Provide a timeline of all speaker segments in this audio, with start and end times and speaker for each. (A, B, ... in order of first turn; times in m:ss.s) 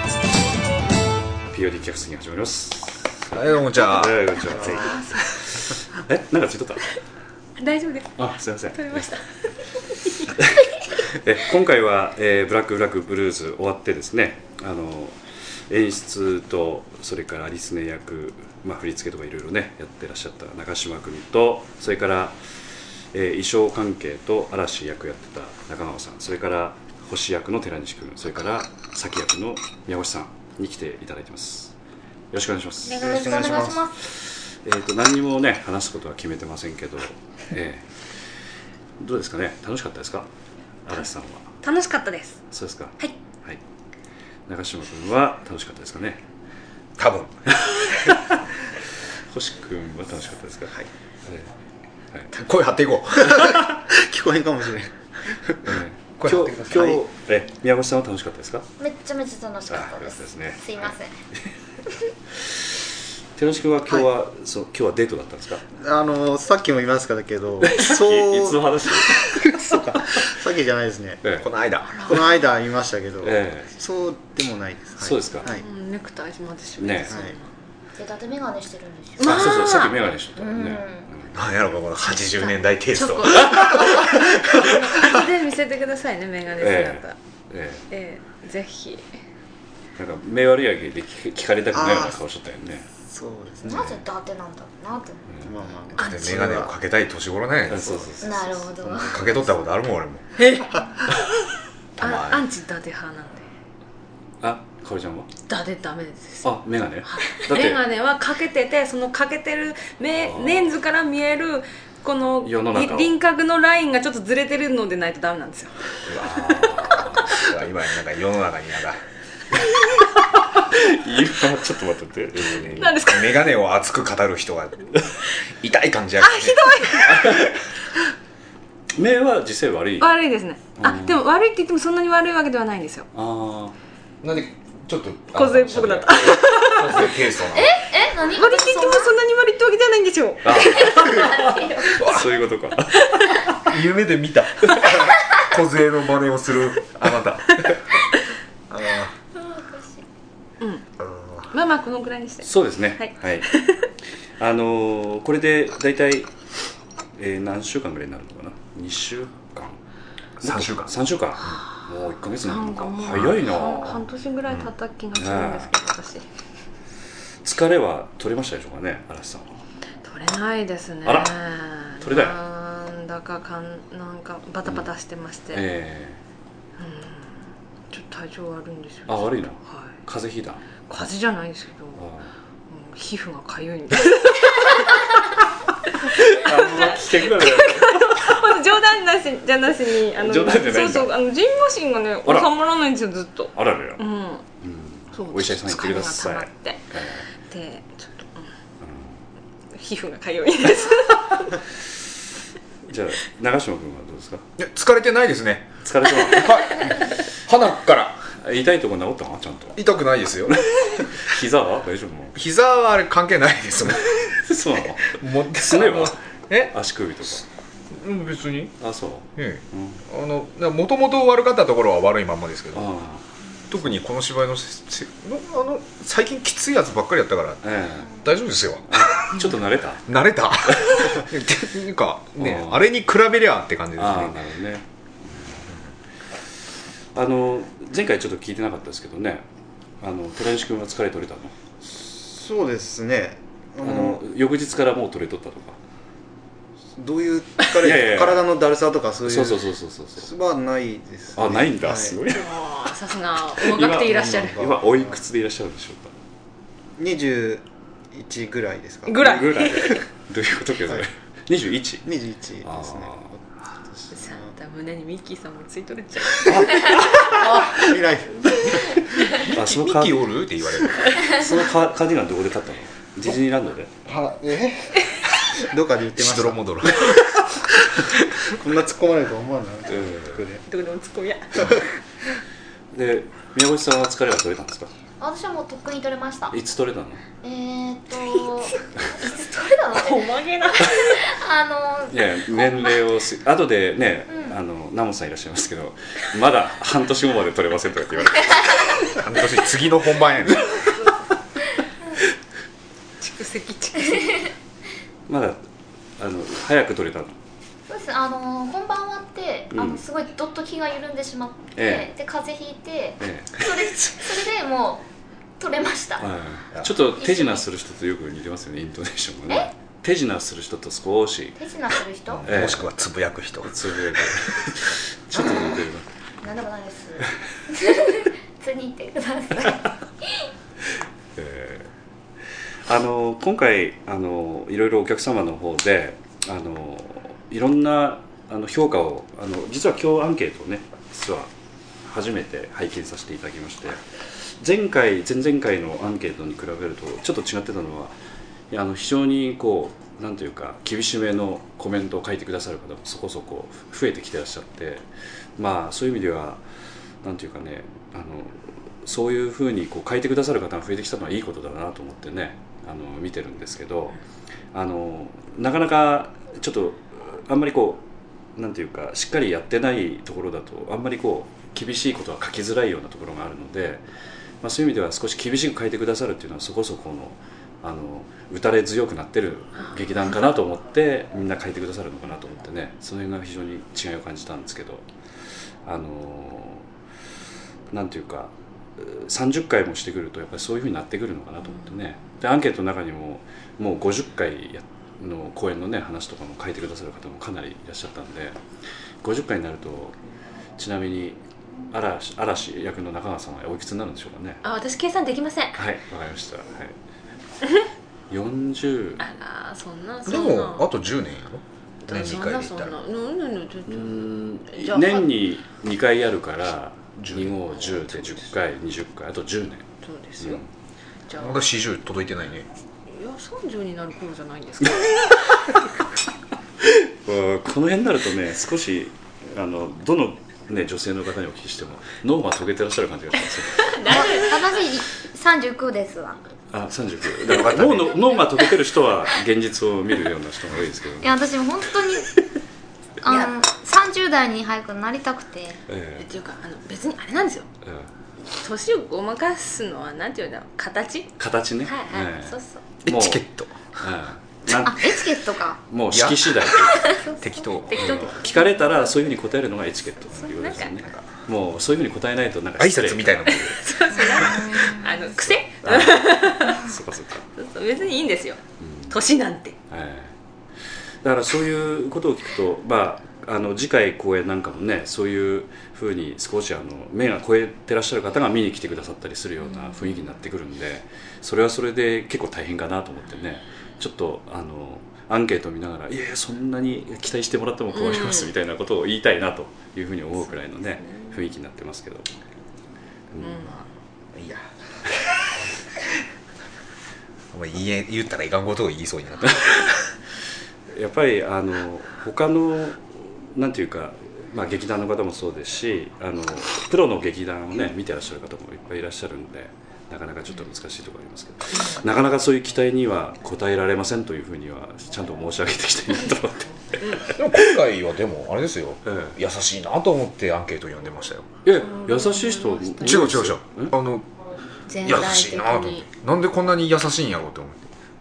0:01.5-0:06.9 A
0:03.3-0:04.3 B
0:04.5-0:05.0 C
0:07.6-0:08.1 D
0:08.2-0:09.1 A
0:08.7-0:09.2 D
0:10.3-0:15.2 A
0:15.7-0:22.4 A
0:23.1-0:31.7 A
0:32.3-0:33.1 A
0:32.9-0:34.0 E
0:32.9-0:33.8 C
0:34.1-0:37.9 A
0:39.0-0:40.3 A
0:40.8-0:41.5 A
0:41.6-0:42.4 D
0:42.5-0:43.6 A
0:44.5-0:46.2 A
0:47.0-0:47.6 B
0:49.3-0:50.7 A
0:52.3-0:53.8 B
0:53.3-0:55.6 C
0:55.6-0:58.7 A
0:56.2-0:57.0 B
0:58.8-1:01.1 E
0:59.7-1:00.9 A
1:03.4-1:05.6 A
1:05.8-1:11.2 C
1:07.6-1:09.3 A
1:11.4-1:12.1 B
1:11.9-1:12.3 D
1:12.1-1:15.7 C
1:13.2-1:13.7 A
1:15.0-1:15.5 A
1:15.5-1:17.5 D
1:16.8-1:17.1 A
1:18.0-1:19.5 E
1:19.2-1:20.1 D
1:19.2-1:21.3 A
1:20.4-1:21.1 E
1:21.3-1:24.7 B
1:22.9-1:27.2 D
1:23.3-1:24.0 A
1:26.6-1:27.8 A
1:27.9-1:29.1 D
1:30.0-1:32.9 A
1:31.7-1:32.1 C
1:33.1-1:33.9 C
1:33.6-1:35.2 E
1:35.4-1:36.7 C
1:35.9-1:38.1 B
1:36.0-1:36.3 D
1:37.7-1:38.4 A
1:38.1-1:39.5 C
1:38.2-1:39.3 E
1:39.1-1:40.4 B
1:40.4-1:40.8 D
1:42.0-1:42.4 B
1:42.0-1:43.5 D
1:44.4-1:45.3 A
1:45.5-1:55.7 D
1:46.4-1:47.8 A
1:50.1-1:50.8 A
1:52.4-1:53.1 A
1:56.1-1:56.7 B
1:56.2-1:57.3 A
1:57.3-1:59.0 B
2:00.5-2:03.0 A
2:02.4-2:04.9 B
2:02.8-2:03.4 D
2:05.4-2:07.5 B
2:06.2-2:07.4 D
2:08.9-2:10.2 A
2:10.0-2:13.1 D
2:10.8-2:11.2 A
2:13.1-2:13.8 A
2:14.2-2:17.8 B
2:15.3-2:17.1 D
2:17.5-2:19.1 E
2:18.2-2:21.0 D
2:20.4-2:22.3 B
2:20.6-2:23.5 A
2:20.8-2:21.9 E
2:23.6-2:27.8 B
2:28.7-2:29.1 C
2:29.3-2:30.0 E
2:31.5-2:33.9 D
2:32.4-2:33.5 A
2:34.4-2:36.3 A
2:37.2-2:39.8 A
2:40.4-2:44.0 A
2:40.4-2:41.5 B
2:42.4-2:46.2 D
2:45.1-2:45.7 A
2:47.4-2:49.6 A
2:50.0-2:55.6 D
2:51.0-2:51.3 A
2:52.0-2:52.4 A
2:54.6-2:54.9 A
2:55.5-2:56.2 A
2:56.8-2:59.9 D
2:59.1-3:00.7 A
3:00.8-3:02.0 D
3:02.0-3:02.3 A
3:02.7-3:05.3 D
3:06.1-3:08.5 A
3:06.2-3:14.4 D
3:10.1-3:11.2 A
3:12.2-3:12.5 A
3:13.6-3:14.0 A
3:14.6-3:17.2 A
3:15.1-3:18.5 D
3:18.8-3:19.2 A
3:19.7-3:21.6 D
3:22.9-3:24.5 A
3:24.6-3:28.3 B
3:25.8-3:26.9 A
3:28.3-3:29.8 A
3:29.8-3:30.7 B
3:30.5-3:32.4 A
3:32.3-3:34.4 B
3:34.2-3:37.4 A
3:35.1-3:37.4 B
3:37.9-3:38.8 B
3:38.8-3:40.0 A
3:39.4-3:42.9 B
3:42.8-3:43.2 A
3:43.7-3:49.1 B
3:47.6-3:48.2 A
3:48.9-3:50.1 A
3:50.1-3:54.4 B
3:50.7-3:51.2 A
3:52.4-3:52.8 A
3:54.0-3:55.7 A
3:57.2-3:59.5 A
4:00.0-4:01.5 A
4:01.9-4:04.2 C
4:03.8-4:05.8 A
4:07.0-4:09.7 C
4:07.8-4:08.5 A
4:09.2-4:10.3 A
4:10.2-4:12.2 C
4:11.3-4:12.5 A
4:12.3-4:14.7 D
4:13.5-4:16.1 A
4:14.1-4:15.2 C
4:17.0-4:19.6 C
4:19.1-4:20.0 D
4:19.2-4:22.1 A
4:22.0-4:23.4 C
4:22.6-4:23.3 A
4:24.0-4:24.5 C
4:24.1-4:27.8 D
4:26.5-4:29.1 C
4:29.5-4:31.4 B
4:29.5-4:30.3 A
4:31.2-4:33.9 A
4:34.1-4:37.6 C
4:36.1-4:37.4 B
4:38.5-4:40.6 C
4:39.9-4:40.4 A
4:40.7-4:41.8 D
4:42.9-4:44.9 A
4:45.2-4:46.6 E
4:46.5-4:47.2 A
4:47.4-4:50.3 E
4:49.9-4:51.2 D
4:51.2-4:52.2 E
4:52.1-4:58.9 A
4:59.1-5:00.8 B
5:03.2-5:04.5 D
5:05.3-5:05.6 A
5:06.2-5:07.4 A
5:07.9-5:15.0 E
5:09.7-5:10.0 A
5:11.8-5:12.1 A
5:13.2-5:13.7 A
5:15.6-5:16.2 E
5:16.2-5:21.6 A
5:17.2-5:17.6 E
5:21.6-5:22.4 E
5:22.3-5:24.5 B
5:22.4-5:22.9 A
5:23.6-5:26.0 A
5:25.4-5:25.7 B
5:26.4-5:30.4 E
5:31.4-5:31.9 A
5:32.9-5:41.5 A
5:42.0-5:44.0 A
5:44.6-5:48.1 A
5:48.7-5:55.0 A
5:55.6-5:56.6 A
5:57.2-6:04.2 A
6:04.7-6:08.0 A
6:08.6-6:14.0 A
6:14.6-6:25.0 A
6:25.8-6:26.8 A
6:27.9-6:38.6 A
6:39.2-6:40.1 A
6:40.8-6:41.4 A
6:41.9-6:44.6 A
6:44.6-6:45.8 D
6:45.8-6:46.9 A
6:48.3-6:49.2 A
6:49.2-6:50.9 D
6:50.2-6:52.9 B
6:52.0-6:55.2 D
6:53.8-7:00.7 A
6:57.2-6:57.6 B
6:57.9-6:58.4 D
7:00.0-7:00.6 D
7:01.3-7:01.6 D
7:01.4-7:02.7 B
7:03.1-7:05.8 D
7:06.8-7:14.2 A
7:13.8-7:14.7 D
7:14.0-7:16.4 E
7:16.7-7:21.4 A
7:17.5-7:18.2 B
7:21.2-7:22.3 E
7:23.2-7:25.8 E
7:23.2-7:23.5 D
7:25.9-7:26.2 A
7:26.2-7:27.7 D
7:27.8-7:28.1 A
7:28.5-7:31.3 D
7:31.4-7:33.4 A
7:31.8-7:32.8 D
7:33.0-7:33.8 B
7:34.0-7:35.2 A
7:34.8-7:35.8 E
7:35.9-7:37.2 A
7:36.1-7:38.2 B
7:37.9-7:43.7 A
7:37.9-7:39.1 D
7:40.4-7:40.9 D
7:40.8-7:41.2 B
7:42.8-7:43.8 B
7:43.6-7:46.9 D
7:44.5-7:45.1 E
7:45.4-7:47.5 A
7:47.6-7:49.8 D
7:48.8-7:49.2 A
7:49.9-7:50.3 A
7:51.2-8:12.3 A
7:59.6-8:00.1 D
8:07.9-8:08.5 D
8:11.0-8:11.3 D
8:13.3-8:13.7 A
8:13.4-8:13.8 D
8:13.6-8:14.6 B
8:17.5-8:19.8 B
8:19.5-8:20.0 A
8:20.9-8:37.7 A
8:37.3-8:41.5 B
8:39.0-8:39.4 A
8:41.6-8:44.0 A
8:41.8-8:43.2 D
8:43.0-8:44.3 B
8:44.9-8:46.1 D
8:45.0-8:47.9 B